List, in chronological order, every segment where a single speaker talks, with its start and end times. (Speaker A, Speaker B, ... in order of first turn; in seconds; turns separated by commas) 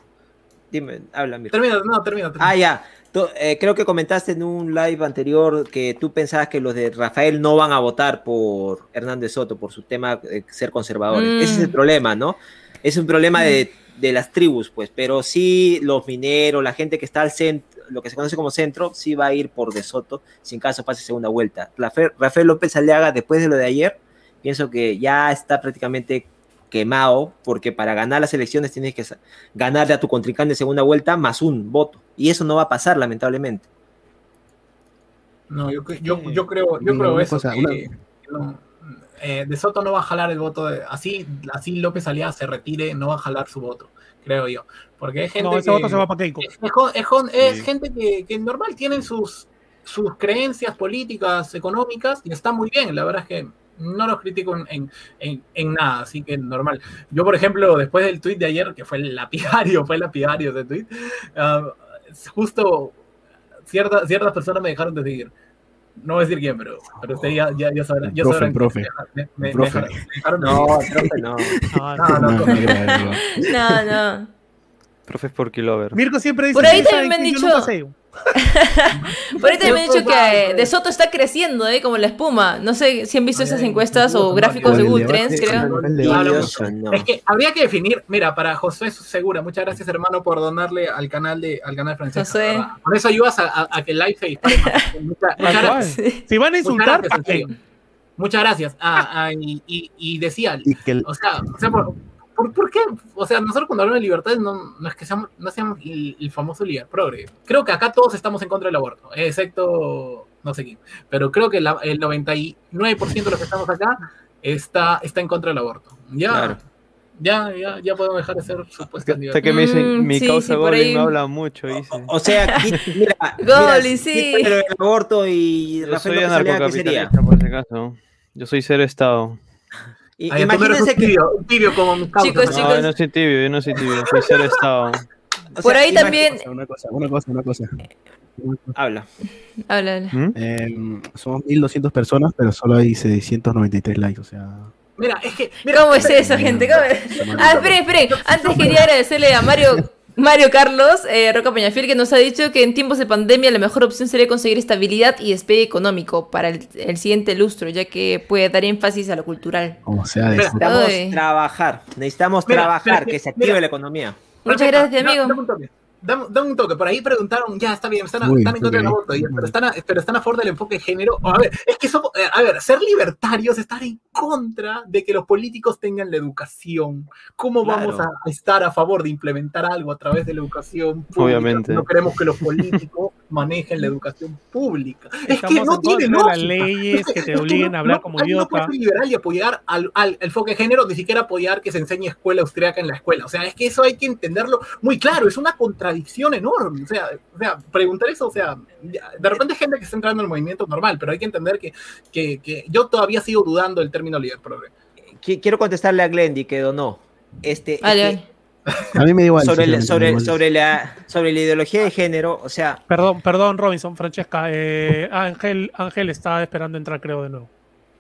Speaker A: 0.7-1.5, Speaker B: 1.5-2.5, Speaker A: 2.4-33.6, Speaker C: 11.1-11.7, Speaker B: 35.5-63.0, Speaker D: 36.1-37.9, Speaker E: 45.4-46.4, Speaker B: 63.7-65.3, Speaker B: 66.0-71.0, Speaker D: 67.1-67.3, Speaker D: 68.0-68.9, Speaker D: 69.5-70.5, Speaker A: 70.4-71.6, Speaker D: 71.0-73.8, Speaker E: 71.7-72.5, Speaker B: 72.0-73.0, Speaker C: 72.5-74.3, Speaker F: 75.1-76.0, Speaker E: 75.9-78.0, Speaker C: 76.5-77.7, Speaker C: 78.3-85.7, Speaker B: 78.9-80.7, Speaker B: 83.3-97.5, Speaker D: 84.6-86.7, Speaker A: 86.0-87.1, Speaker C: 92.1-92.7, Speaker C: 94.4-94.9, Speaker E: 95.4-97.5, Speaker C: 95.5-96.2, Speaker B: 98.2-116.6, Speaker D: 100.6-101.1, Speaker A: 116.3-116.6, Speaker B: 117.2-119.5, Speaker F: 119.1-122.1, Speaker C: 119.4-121.1, Speaker A: 121.9-127.1, Speaker C: 123.4-124.5, Speaker F: 125.8-129.4, Speaker A: 130.2-131.1, Speaker B: 130.3-132.8, Speaker C: 132.2-132.9, Speaker F: 132.4-135.0, Speaker B: 134.0-134.4, Speaker A: 135.6-136.2, Speaker C: 135.6-136.4, Speaker D: 135.9-137.8, Speaker D: 138.4-138.8, Speaker A: 138.7-139.1, Speaker C: 139.7-140.1, Speaker D: 140.3-144.7, Speaker B: 145.0-148.9, Speaker C: 145.7-159.8, Speaker D: 145.9-147.8, Speaker D: 159.8-160.9, Speaker B: 160.3-160.8, Speaker C: 160.6-161.2, Speaker A: 161.1-164.2, Speaker B: 162.5-163.6, Speaker B: 164.4-204.7, Speaker C: 164.4-165.4, Speaker D: 168.2-169.5, Speaker F: 181.1-181.9, Speaker E: 185.3-188.7, Speaker A: 205.2-208.2, Speaker C: 207.8-208.2, Speaker D: 208.9-210.4, Speaker A: 209.4-212.8, Speaker E: 212.9-217.5